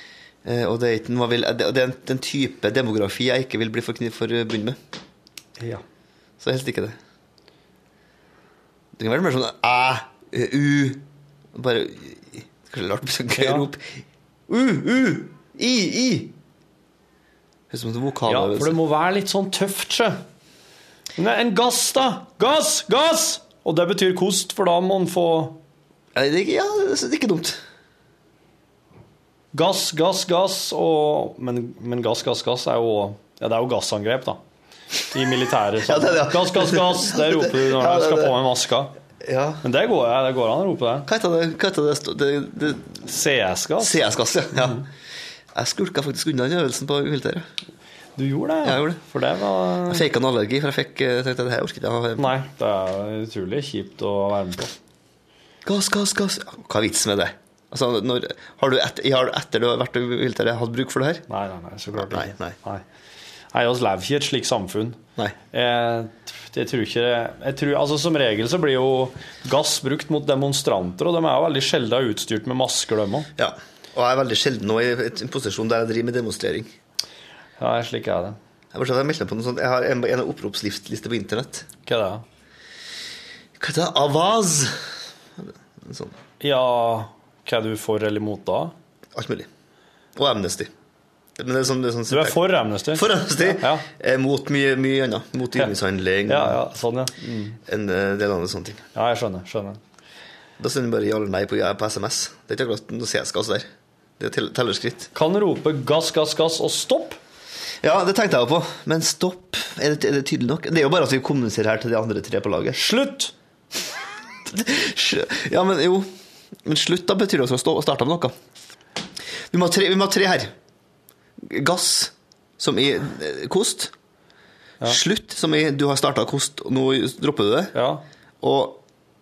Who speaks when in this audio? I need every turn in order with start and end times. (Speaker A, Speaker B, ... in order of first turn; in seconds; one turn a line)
Speaker A: 0.4-4.8
Speaker B: 5.6-5.8
Speaker A: 6.4-7.0
Speaker A: 8.9-11.0
Speaker A: 11.5-14.0
Speaker B: 13.3-13.7
Speaker A: 14.5-16.3
Speaker A: 17.7-18.8
Speaker B: 18.3-20.2
Speaker B: 21.2-25.6
Speaker A: 26.1-27.6
Speaker B: 29.5-34.4
Speaker B: 35.1-38.9
Speaker A: 35.8-38.4
Speaker A: 39.2-39.6
Speaker B: 39.6-41.1
Speaker A: 41.0-42.9
Speaker B: 43.1-44.0
Speaker A: 43.8-44.9
Speaker B: 44.5-44.8
Speaker A: 45.5-47.4
Speaker B: 48.2-50.0
Speaker A: 48.6-49.0
Speaker A: 49.9-52.3
Speaker B: 52.2-54.7
Speaker A: 55.6-61.2
Speaker B: 61.3-62.8
Speaker A: 61.9-62.5
Speaker B: 63.5-65.0
Speaker B: 65.5-73.3
Speaker A: 73.4-76.7
Speaker B: 77.6-78.4
Speaker A: 78.7-81.7
Speaker B: 81.8-82.2
Speaker A: 83.6-84.7
Speaker A: 85.8-86.2
Speaker B: 86.4-88.7
Speaker A: 89.2-89.5
Speaker A: 90.2-90.7
Speaker A: 91.4-96.6
Speaker B: 92.1-93.8
Speaker B: 96.3-97.6
Speaker A: 97.7-98.8
Speaker B: 98.9-99.8
Speaker A: 100.6-103.7
Speaker A: 104.2-105.1
Speaker B: 105.1-107.2
Speaker A: 107.8-112.8
Speaker B: 112.8-113.3
Speaker A: 114.5-116.1
Speaker A: 116.6-118.3
Speaker A: 119.5-120.5
Speaker A: 121.4-123.9
Speaker A: 124.8-127.7
Speaker B: 127.7-128.0
Speaker A: 128.4-128.8